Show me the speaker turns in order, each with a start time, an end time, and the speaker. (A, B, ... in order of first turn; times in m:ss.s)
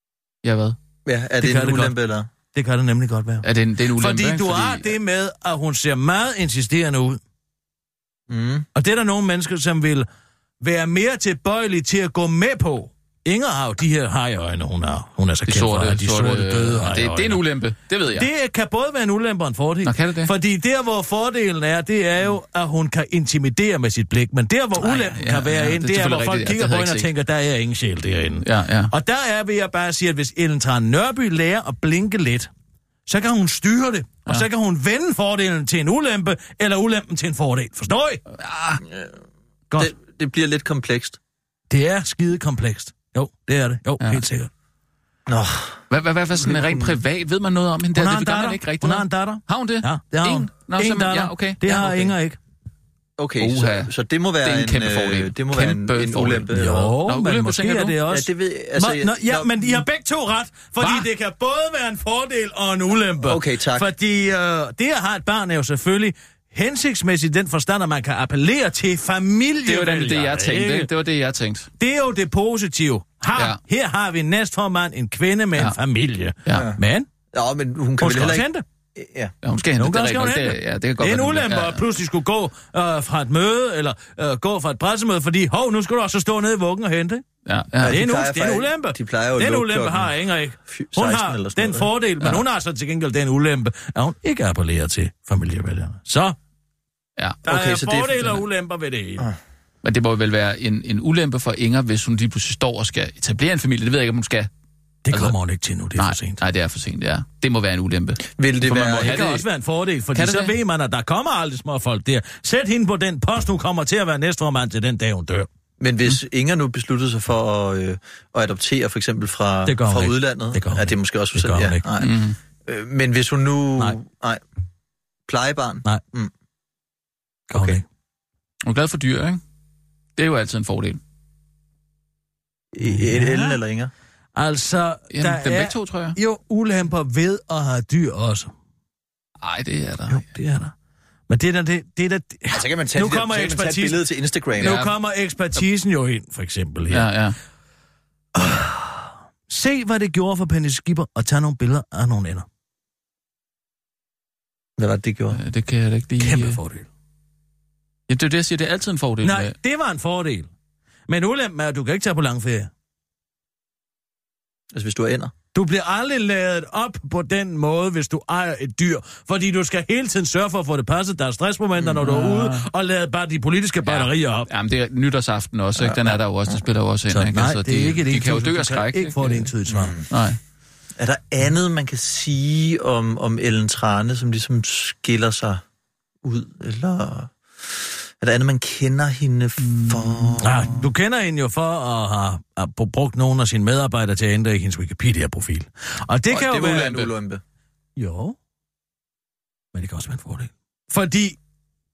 0:00.4-0:00.8 A
0:01.0-0:02.3 B
0:01.4-0:01.9 C
0:02.5-0:07.2 C
0:03.4-0:04.9 A
0:08.3-0:08.7 B
0:08.7-0:10.1 C
0:10.6-0:17.4 C
0:15.4-0:18.3 A
0:18.1-0:32.5 C
0:19.8-0:20.3 A
0:24.8-0:27.1 A
0:28.4-0:28.9 A
0:33.1-0:38.2 C
0:38.3-0:38.8 A
0:39.8-0:41.2 B
0:41.7-0:44.5 C
0:45.3-0:45.8 B
0:45.9-0:52.1 A
0:46.4-0:47.0 B
0:47.9-0:52.4 C
0:53.2-0:56.9 B
0:53.4-0:53.9 A
0:54.4-0:56.5 A
0:56.5-1:10.9 C
0:57.0-0:58.0 A
0:58.1-0:59.7 B
1:03.2-1:03.9 B
1:09.6-1:11.7 A
1:11.8-1:17.1 C
1:13.3-1:13.6 A
1:16.5-1:16.8 B
1:17.3-1:19.3 B
1:18.0-1:18.6 C
1:19.4-1:21.8 A
1:19.8-1:27.2 C
1:27.4-1:28.0 A
1:27.8-1:30.1 B
1:27.8-1:36.4 C
1:30.7-1:31.9 B
1:37.4-1:39.3 C
1:37.5-1:38.2 B
1:39.8-1:44.5 A
1:45.0-1:46.4 C
1:46.0-1:49.4 A
1:48.4-1:49.3 B
1:49.0-1:55.5 C
1:50.1-1:50.5 A
1:55.8-2:04.4 B
1:59.6-2:01.8 C
2:02.0-2:02.4 A
2:05.3-2:06.3 B
2:07.5-2:07.8 B
2:07.5-2:07.8 C
2:08.6-2:09.4 A
2:10.2-2:11.0 A
2:12.7-2:13.9 B
2:12.8-2:13.6 C
2:14.3-2:18.5 C
2:15.1-2:16.2 A
2:19.4-2:20.3 A
2:20.1-2:20.7 C
2:21.3-2:24.0 C
2:22.5-2:24.8 B
2:24.6-2:27.1 C
2:24.6-2:24.9 A
2:26.9-2:27.4 A
2:28.3-2:32.4 C
2:34.8-2:35.4 B
2:35.3-2:36.6 A
2:36.2-2:36.9 C
2:38.1-2:39.5 A
2:39.2-2:40.5 C
2:41.1-2:42.7 C
2:44.7-2:45.3 B
2:45.5-2:54.5 C
2:52.0-2:52.6 A
2:53.8-2:59.5 A
2:57.1-3:00.0 C
2:59.7-3:00.0 B
3:00.1-3:00.4 A
3:01.0-3:05.6 B
3:06.2-3:10.7 B
3:09.6-3:10.4 A
3:10.4-3:17.1 C
3:16.3-3:17.4 B
3:18.0-3:18.4 C
3:19.7-3:21.4 C